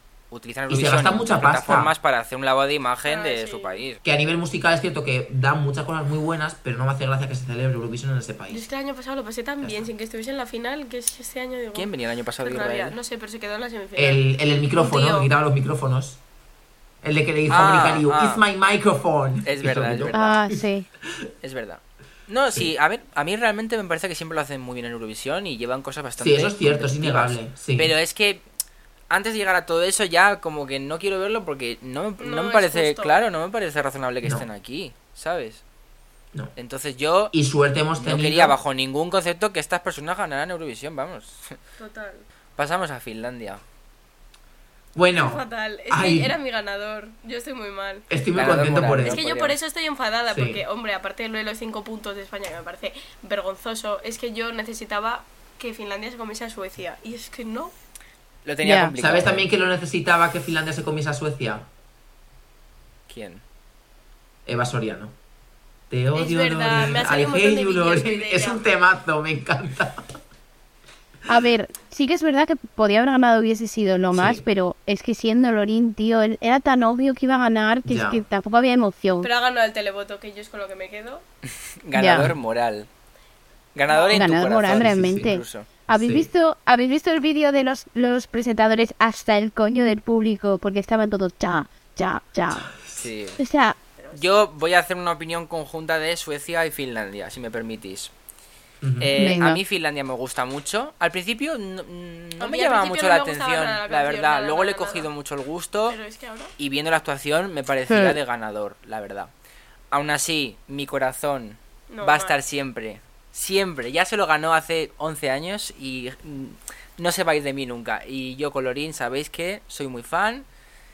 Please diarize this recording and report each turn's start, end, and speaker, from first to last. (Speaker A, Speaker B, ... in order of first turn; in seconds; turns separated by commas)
Speaker A: 0.3-4.0, Speaker B: 0.7-1.9, Speaker C: 3.0-3.8, Speaker B: 4.0-8.7, Speaker C: 8.5-14.2, Speaker B: 9.6-9.9, Speaker A: 11.7-13.0, Speaker B: 14.0-16.2, Speaker C: 14.8-15.3, Speaker B: 17.0-20.1, Speaker A: 17.5-18.4, Speaker A: 19.4-20.4, Speaker D: 20.1-20.9, Speaker A: 21.4-28.4, Speaker B: 26.2-27.9, Speaker A: 29.1-35.6, Speaker C: 32.2-33.2, Speaker A: 36.6-37.3, Speaker B: 37.3-38.6, Speaker A: 38.0-41.5, Speaker C: 41.8-42.2, Speaker A: 42.6-43.6, Speaker B: 45.0-46.4, Speaker C: 45.2-48.1, Speaker B: 48.1-49.2, Speaker A: 48.4-49.6, Speaker C: 49.1-57.7, Speaker B: 50.3-50.6, Speaker A: 58.5-59.5, Speaker D: 58.6-58.9, Speaker B: 59.0-61.7, Speaker A: 63.1-63.4, Speaker B: 64.5-65.1, Speaker B: 65.9-70.1, Speaker C: 66.2-68.6, Speaker D: 71.3-79.3, Speaker B: 74.1-74.4, Speaker B: 77.8-78.2, Speaker C: 79.2-81.2, Speaker A: 81.8-82.9, Speaker D: 81.9-82.3, Speaker A: 83.8-85.7, Speaker C: 83.9-84.3, Speaker D: 84.1-92.7, Speaker B: 84.7-85.4, Speaker B: 86.0-86.3, Speaker B: 92.5-93.1, Speaker A: 93.0-93.4, Speaker D: 93.4-93.8, Speaker C: 94.0-94.3, Speaker A: 94.2-98.1, Speaker B: 98.8-99.2, Speaker A: 99.0-106.0, Speaker D: 99.2-99.6, Speaker C: 102.4-105.1, Speaker C: 105.9-106.5, Speaker A: 106.6-109.3, Speaker D: 107.9-108.2, Speaker A: 109.9-120.5, Speaker C: 111.9-112.4